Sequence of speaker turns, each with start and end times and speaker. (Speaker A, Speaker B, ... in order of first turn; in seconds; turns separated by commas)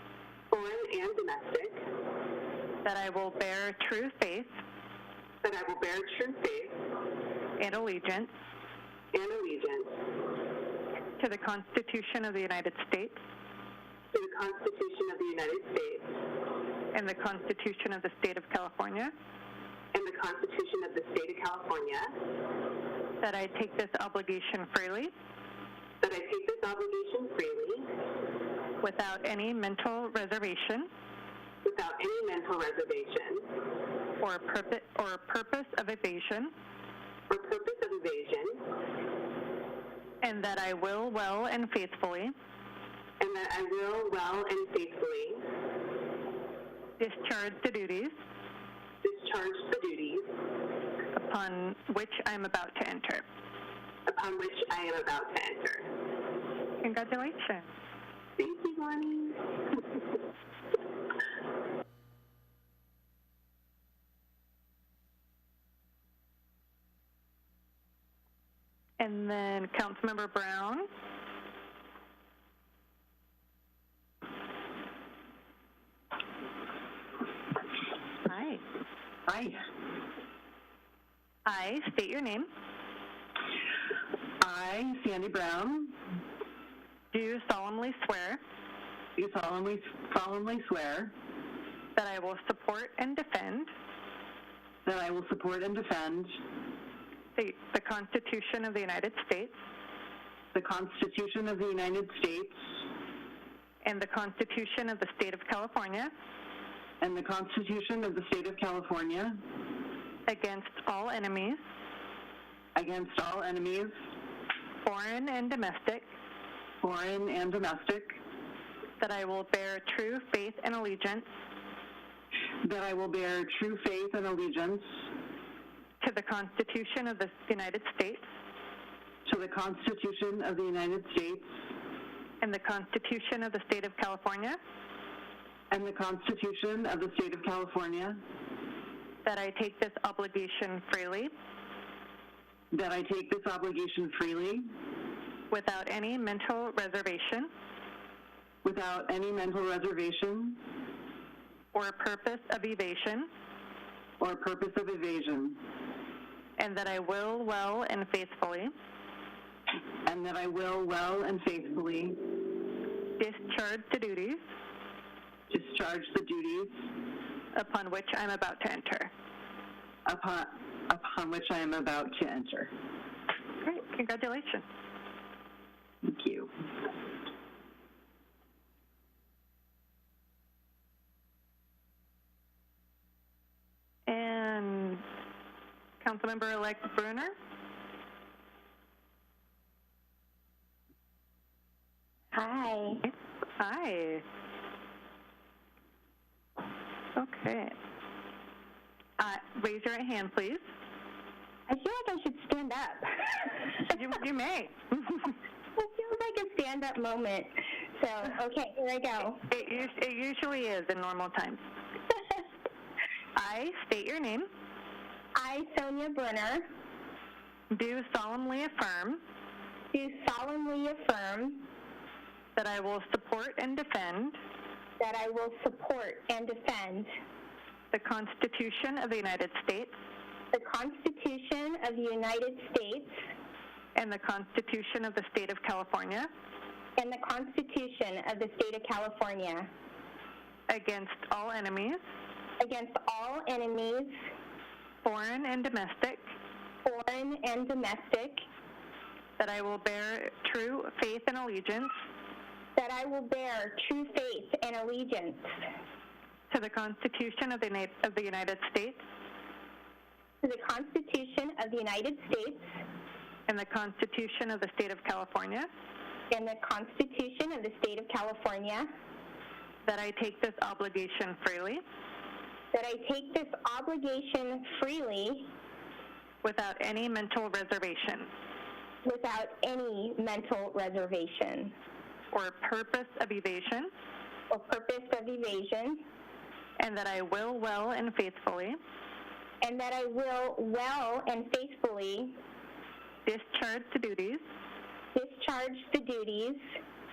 Speaker A: 0.5-1.8, Speaker B: 2.8-4.5, Speaker A: 5.4-6.8, Speaker B: 7.6-8.3, Speaker A: 9.1-10.0, Speaker B: 11.2-13.2, Speaker A: 14.1-16.2, Speaker B: 16.9-19.1, Speaker A: 19.9-22.1, Speaker B: 23.2-25.1, Speaker A: 26.0-27.9, Speaker B: 28.8-30.9, Speaker A: 31.6-33.5, Speaker B: 34.2-36.5, Speaker A: 37.3-38.6, Speaker B: 40.2-42.3, Speaker A: 43.2-45.4, Speaker B: 47.0-48.1, Speaker A: 49.0-50.3, Speaker B: 51.1-53.2, Speaker A: 54.1-55.9, Speaker B: 56.8-57.7, Speaker A: 58.4-59.6, Speaker B: 69.0-70.9, Speaker B: 78.2-78.6, Speaker C: 79.3-79.6, Speaker B: 81.5-82.5, Speaker C: 84.4-86.0, Speaker B: 87.1-88.4, Speaker C: 89.2-91.1, Speaker B: 92.0-93.7, Speaker C: 94.8-96.3, Speaker B: 97.3-99.6, Speaker C: 100.5-102.6, Speaker B: 103.8-106.1, Speaker C: 107.0-109.4, Speaker B: 110.3-111.6, Speaker C: 112.7-113.9, Speaker B: 114.8-116.0, Speaker C: 116.8-118.2, Speaker B: 119.0-121.3, Speaker C: 122.6-124.9, Speaker B: 126.0-128.2, Speaker C: 129.2-131.6, Speaker B: 132.4-134.6, Speaker C: 135.7-138.2, Speaker B: 139.2-141.3, Speaker C: 142.7-144.7, Speaker B: 145.5-147.5, Speaker C: 148.6-150.6, Speaker B: 151.7-153.3, Speaker C: 154.2-155.6, Speaker B: 156.6-158.7, Speaker C: 160.0-162.2, Speaker B: 163.2-164.4, Speaker C: 165.5-166.9, Speaker B: 167.5-169.1, Speaker C: 170.1-172.7, Speaker B: 173.6-174.7, Speaker C: 176.0-176.5, Speaker B: 184.1-185.0, Speaker B: 186.0-187.3, Speaker D: 192.3-193.1, Speaker B: 193.6-194.2, Speaker B: 197.2-197.7, Speaker B: 199.2-200.6, Speaker D: 201.7-203.8, Speaker B: 203.9-205.3, Speaker D: 205.8-209.4, Speaker B: 209.5-211.6, Speaker B: 213.3-214.5, Speaker D: 215.3-216.6, Speaker B: 217.7-219.2, Speaker D: 219.9-221.6, Speaker B: 222.6-224.4, Speaker D: 225.0-227.1, Speaker B: 227.9-229.9, Speaker D: 230.5-233.2, Speaker B: 233.9-236.3, Speaker D: 237.0-239.7, Speaker B: 240.7-242.0, Speaker D: 242.6-244.2, Speaker B: 245.0-246.2, Speaker D: 246.8-248.4, Speaker B: 249.4-251.9, Speaker D: 252.8-255.5, Speaker B: 256.5-259.0, Speaker D: 260.4-262.7, Speaker B: 263.5-265.7, Speaker D: 266.3-268.9, Speaker B: 269.9-271.8, Speaker D: 272.7-275.5, Speaker B: 276.4-278.3, Speaker D: 279.0-281.7, Speaker B: 282.3-283.9, Speaker D: 284.5-286.0, Speaker B: 286.8-288.8, Speaker D: 289.6-292.4, Speaker B: 293.2-294.4, Speaker D: 295.1-296.6